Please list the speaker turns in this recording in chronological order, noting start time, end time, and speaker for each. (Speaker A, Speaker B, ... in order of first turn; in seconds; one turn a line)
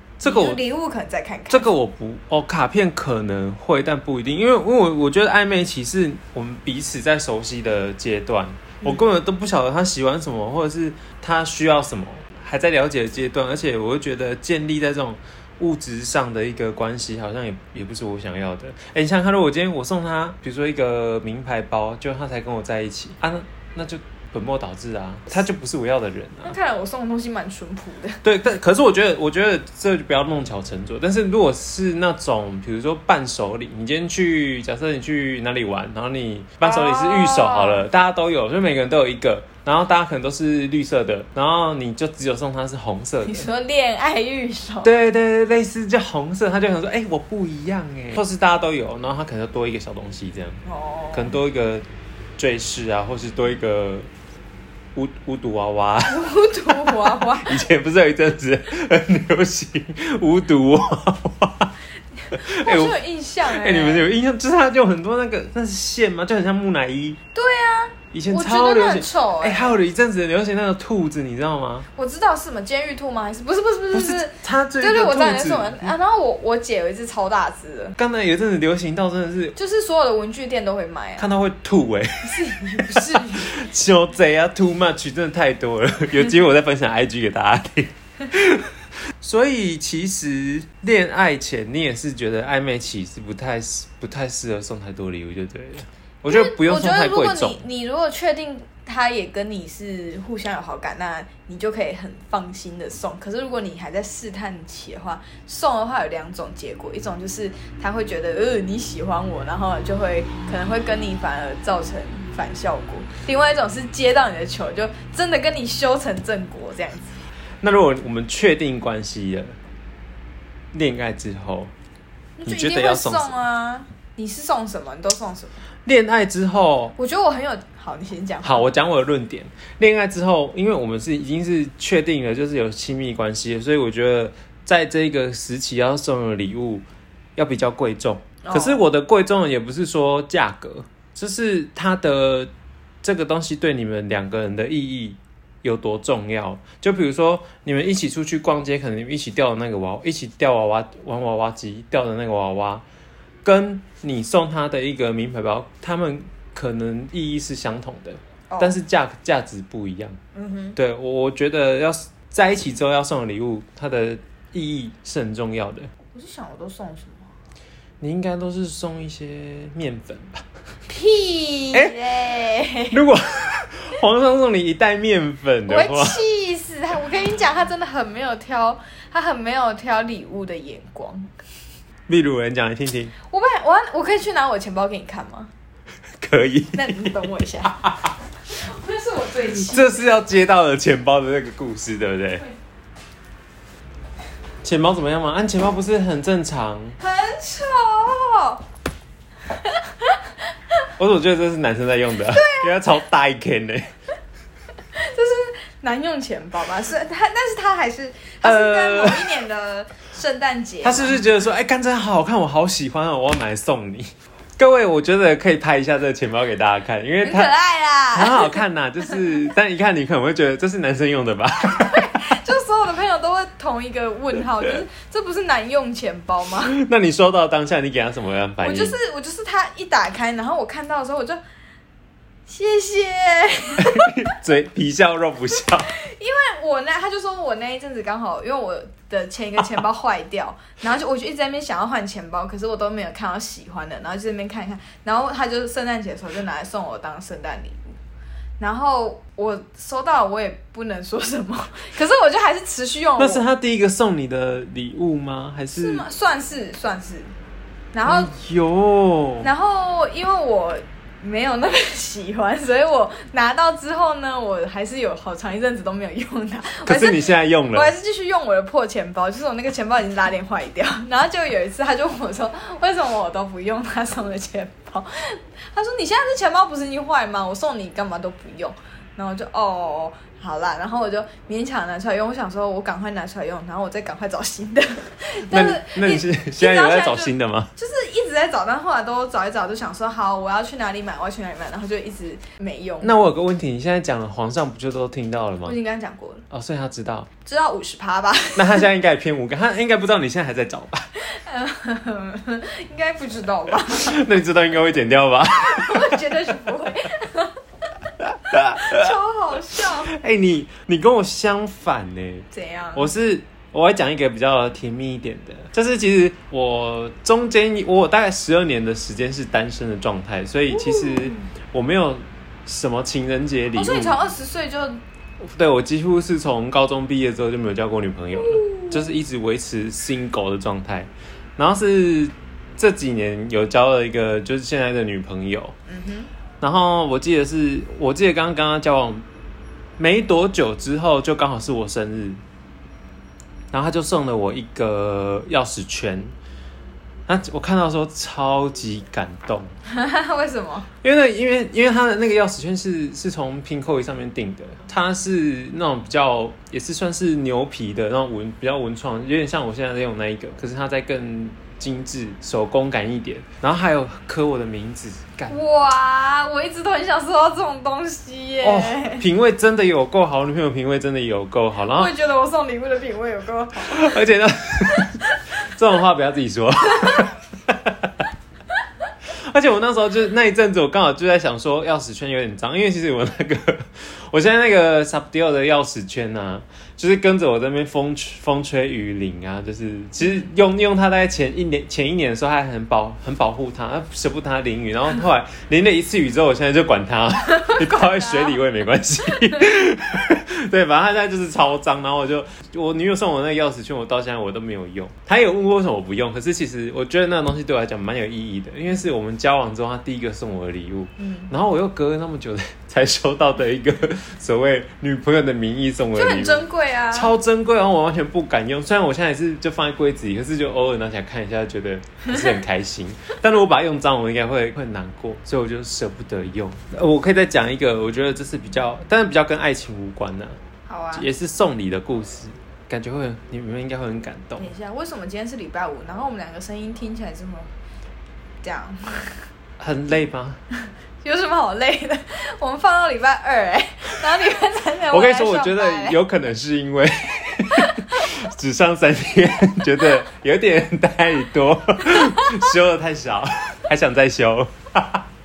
Speaker A: 0.2-0.6
Speaker B: 0.2-1.7
Speaker A: 1.5-26.6
Speaker B: 26.4-28.2
Speaker A: 28.2-43.5
Speaker B: 36.6-37.9
Speaker B: 43.2-44.9
Speaker A: 44.8-50.6
Speaker B: 50.6-51.4
Speaker A: 51.1-51.9
Speaker A: 52.4-54.1
Speaker A: 55.0-61.7
Speaker B: 56.0-57.6
Speaker A: 62.3-67.2
Speaker B: 62.3-64.1
Speaker B: 67.3-69.8
Speaker A: 68.1-71.9
Speaker B: 72.0-78.0
Speaker A: 73.9-75.9
Speaker A: 78.0-79.6
Speaker B: 79.6-81.3
Speaker A: 81.2-88.7
Speaker B: 82.2-83.6
Speaker A: 89.2-97.6
Speaker B: 96.3-117.2
Speaker A: 117.6-119.6
Speaker A: 120.7-121.7
Speaker B: 122.4-125.6
Speaker A: 122.5-123.4
Speaker A: 125.9-126.9
Speaker B: 127.0-128.7
Speaker A: 128.4-142.5
Speaker B: 138.4-138.8
Speaker A: 143.0-152.8
Speaker A: 153.4-160.2
Speaker B: 158.5-158.8
Speaker B: 160.3-160.8
Speaker A: 160.8-165.9
Speaker B: 166.1-167.3
Speaker A: 168.0-170.4
Speaker B: 170.9-173.0
Speaker A: 171.7-172.0
Speaker A: 172.9-176.2
Speaker B: 175.7-181.3
Speaker A: 182.1-183.1
Speaker B: 183.2-185.5
Speaker A: 186.2-187.2
Speaker B: 186.7-187.8
Speaker A: 187.7-188.1
Speaker B: 188.5-190.1
Speaker A: 189.5-192.5
Speaker A: 194.6-197.0
Speaker B: 197.0-198.6
Speaker B: 199.5-200.8
Speaker A: 201.0-203.9
Speaker B: 202.2-202.8
Speaker B: 204.9-211.2
Speaker A: 208.4-209.4
Speaker A: 210.8-217.5
Speaker B: 217.2-218.6
Speaker A: 218.1-222.1
Speaker B: 221.7-226.8
Speaker A: 226.7-229.0
Speaker B: 228.6-231.4
Speaker B: 232.5-234.3
Speaker A: 233.8-235.9
Speaker B: 235.9-248.0
Speaker B: 248.6-253.4
Speaker A: 253.2-256.0
Speaker B: 255.7-257.3
Speaker B: 257.9-258.3
Speaker A: 258.0-259.5
Speaker B: 259.4-293.1
Speaker A: 266.9-267.9
Speaker A: 285.5-287.7
Speaker A: 293.0-295.8
Speaker B: 295.6-296.5
Speaker A: 296.5-297.3
Speaker B: 297.4-298.9
Speaker A: 298.6-301.1
Speaker B: 301.2-304.2
Speaker A: 303.9-306.2
Speaker B: 305.6-307.6
Speaker A: 308.2-309.1
Speaker B: 308.7-310.1
Speaker A: 310.1-324.2
Speaker B: 312.5-313.1
Speaker B: 320.7-321.4
Speaker B: 323.7-325.0
Speaker A: 325.4-335.8
Speaker B: 328.4-329.1
Speaker B: 335.9-336.3
Speaker A: 336.6-339.2
Speaker A: 340.0-342.4
Speaker A: 343.7-346.3
Speaker A: 347.3-349.7
Speaker B: 349.9-350.9
Speaker A: 351.0-365.6
Speaker B: 365.5-369.2
Speaker A: 368.6-372.1
Speaker B: 371.9-374.2
Speaker A: 373.8-378.2
Speaker B: 375.0-375.4
Speaker B: 377.0-377.3
Speaker A: 379.5-430.6
Speaker B: 397.5-398.6
Speaker B: 411.2-411.5
Speaker B: 416.1-417.3
Speaker B: 422.3-422.6
Speaker B: 430.9-431.3
Speaker A: 431.1-434.7
Speaker B: 434.6-437.7
Speaker B: 438.6-439.4
Speaker A: 439.8-440.6
Speaker B: 441.2-446.2
Speaker A: 445.1-455.3
Speaker B: 447.7-448.1
Speaker B: 452.1-452.7